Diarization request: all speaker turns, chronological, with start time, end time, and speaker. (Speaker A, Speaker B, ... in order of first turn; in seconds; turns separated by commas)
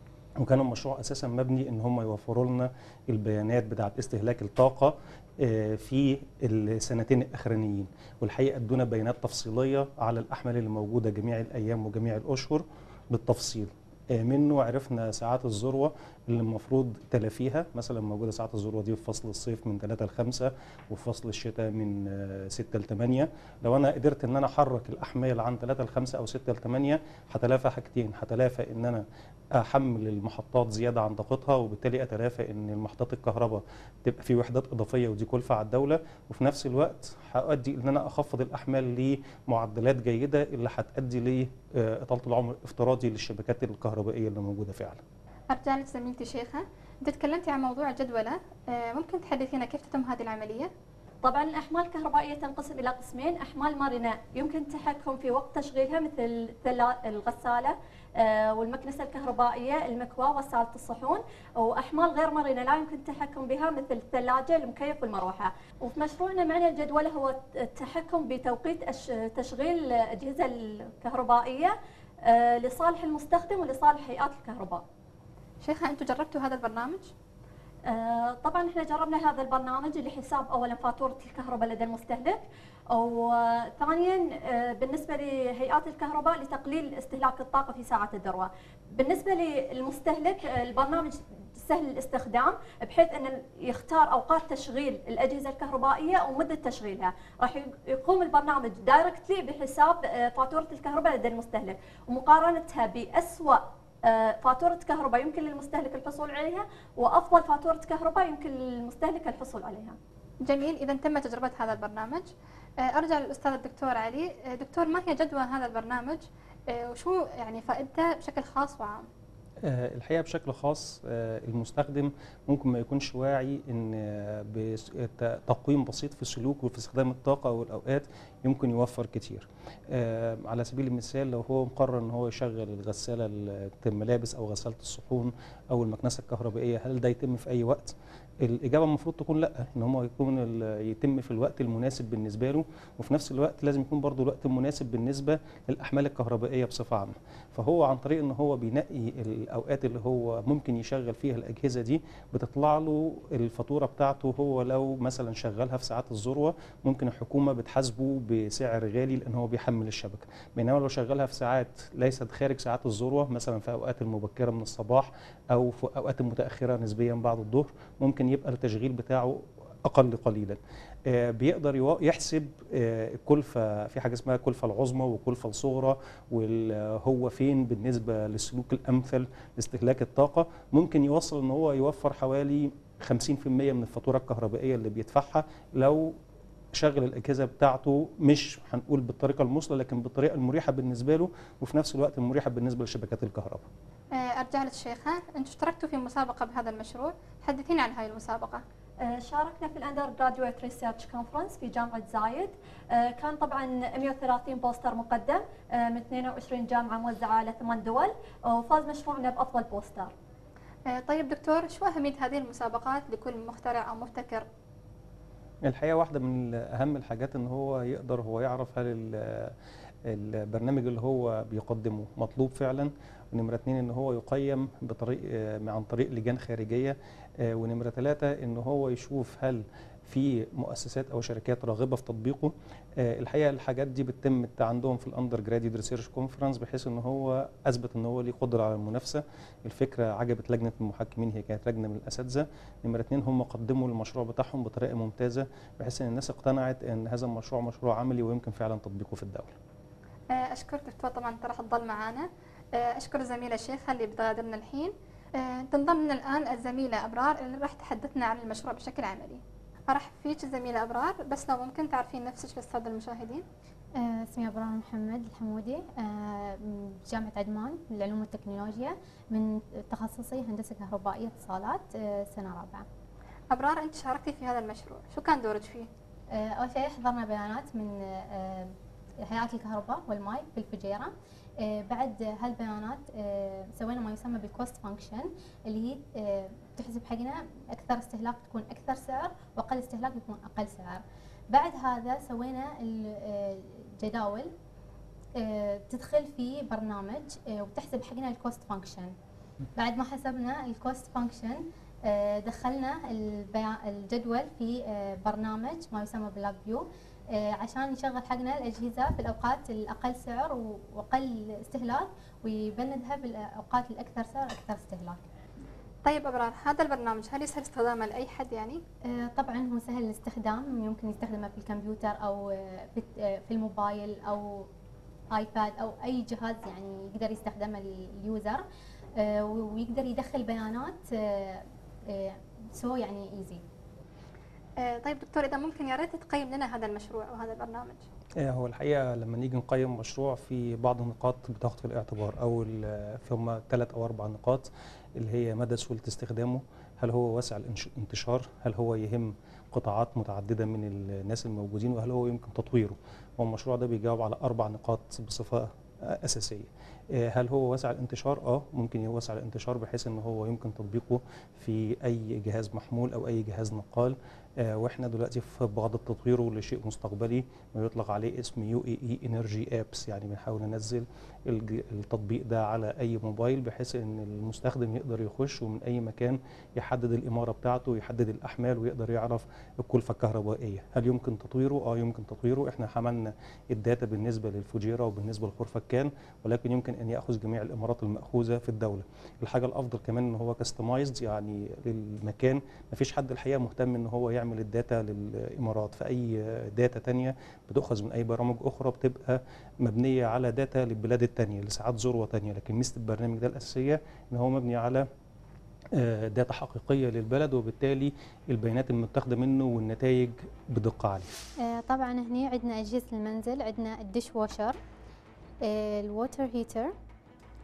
Speaker A: 0.4-29.0, Speaker A: 29.6-45.0, Speaker B: 45.5-50.7, Speaker C: 51.2-74.8, Speaker B: 75.6-77.1, Speaker C: 77.9-110.0, Speaker B: 110.5-112.3, Speaker B: 112.8-119.1, Speaker A: 119.6-186.2, Speaker A: 186.8-193.7, Speaker B: 194.1-198.6, Speaker C: 199.0-210.1, Speaker B: 210.9-214.5, Speaker A: 215.7-219.5, Speaker A: 220.1-249.6, Speaker B: 250.3-263.4, Speaker D: 264.0-272.9, Speaker B: 273.5-275.9, Speaker D: 276.3-294.5, Speaker D: 295.4-299.1, Speaker D: 299.8-315.3, Speaker B: 316.1-318.8, Speaker D: 319.1-324.7, Speaker D: 325.3-328.6, Speaker D: 329.2-333.6, Speaker B: 334.8-338.1, Speaker A: 338.4-344.7, Speaker A: 345.2-405.1, Speaker A: 405.9-411.3, Speaker D: 411.6-414.8, Speaker D: 415.6-416.9